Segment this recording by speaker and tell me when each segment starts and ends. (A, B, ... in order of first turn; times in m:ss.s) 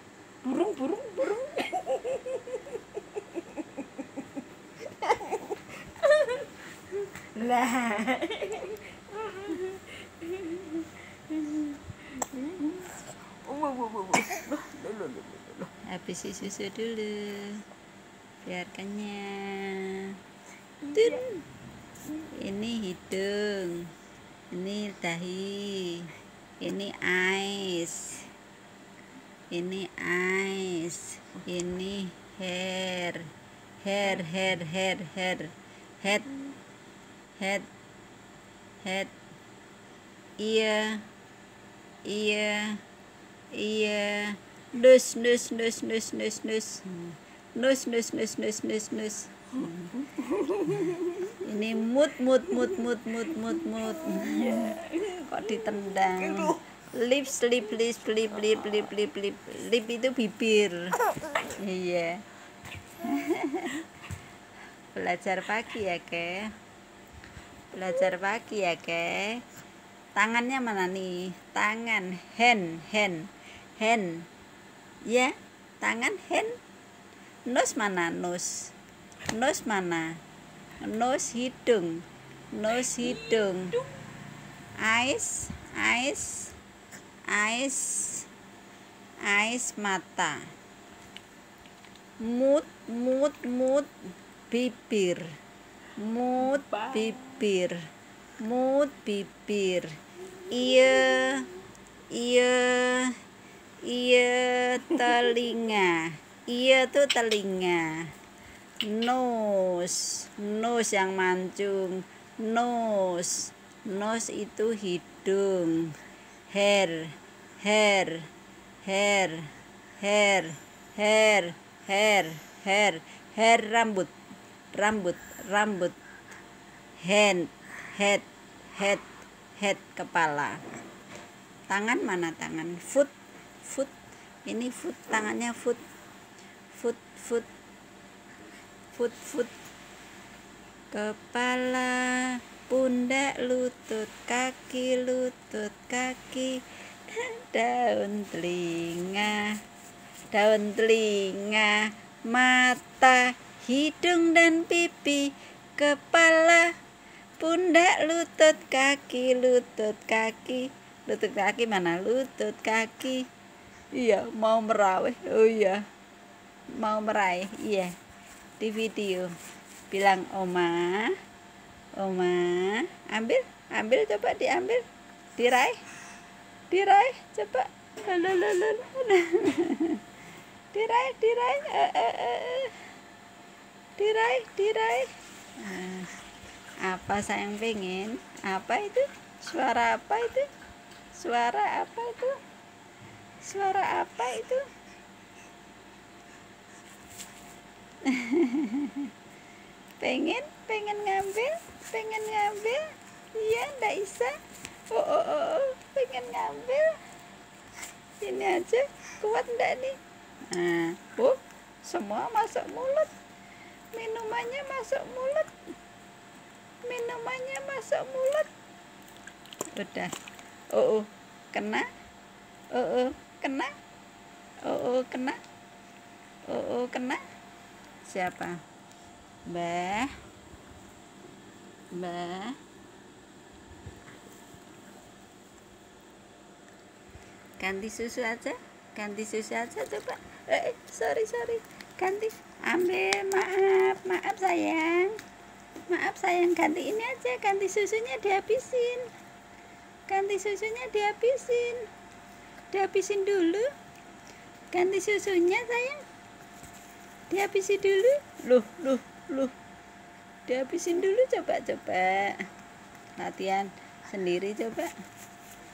0:00.4-0:02.8 A
0:05.2-0:05.5 A
0:06.0-0:06.5 A
0:07.4-0:08.3 B
0:08.2-0:10.7 A
0:11.3-0:15.7 A
0:15.9-0:17.6 B
0:18.4-0:20.2 B
0:20.8-0:21.3 A
0:20.9-0:21.4 B
0:22.4-0:23.9 B
0:24.5-0:28.3 B
0:29.5-0:33.3 B
0:33.8-0:36.4 B
0:37.4-0:37.7 B
0:38.8-0:39.1 B
0:40.4-0:41.0 B
0:42.0-0:42.8 B
0:43.5-0:47.0 B
0:47.5-0:49.8 B
0:49.7-0:51.0 A
0:50.7-1:01.0 B
0:54.1-0:55.2 A
0:56.2-0:56.6 A
1:01.5-1:02.2 B
1:03.0-1:03.8 B
1:04.9-1:06.5 B
1:07.7-1:09.4 B
1:10.2-1:14.2 B
1:15.1-1:16.5 B
1:17.5-1:18.7 B
1:19.3-1:20.2 B
1:20.8-1:23.7 B
1:23.0-1:23.8 A
1:24.8-1:26.5 B
1:27.3-1:28.3 B
1:29.3-1:30.4 B
1:32.2-1:33.9 B
1:34.5-1:35.3 B
1:36.0-1:37.8 B
1:36.6-1:37.0 A
1:38.4-1:39.9 B
1:40.5-1:41.5 B
1:42.1-1:43.2 B
1:43.9-1:48.0 B
1:48.8-1:56.0 B
1:56.5-1:58.3 B
1:58.8-2:04.1 B
2:04.7-2:06.0 B
2:07.0-2:10.6 B
2:11.7-2:13.9 B
2:14.4-2:15.8 B
2:16.7-2:17.5 B
2:18.9-2:19.5 B
2:20.9-2:26.6 B
2:27.1-2:29.6 B
2:30.3-2:36.7 B
2:37.4-2:43.2 B
2:43.9-2:45.8 B
2:46.8-2:47.9 B
2:48.6-2:49.3 B
2:49.9-2:51.2 B
2:52.0-2:54.8 B
2:55.4-2:55.8 B
2:56.7-3:00.0 B
3:00.7-3:02.9 B
3:04.0-3:06.1 B
3:06.8-3:10.5 B
3:11.2-3:12.4 B
3:13.4-3:14.6 B
3:18.0-3:19.1 B
3:20.0-3:22.8 B
3:23.3-3:24.4 B
3:24.9-3:27.0 B
3:28.2-3:30.0 B
3:30.5-3:33.1 B
3:33.9-3:35.5 B
3:36.8-3:38.5 B
3:39.7-3:40.1 B
3:40.7-3:41.9 B
3:42.7-3:43.7 B
3:44.6-3:45.4 B
3:46.5-3:47.2 B
3:48.0-3:48.6 B
3:49.5-3:50.1 B
3:51.9-3:52.6 B
3:57.6-4:05.2 B
4:05.9-4:09.1 B
4:10.1-4:11.9 B
4:12.7-4:13.7 B
4:14.7-4:16.0 B
4:17.3-4:19.5 B
4:20.5-4:22.4 B
4:23.2-4:24.9 B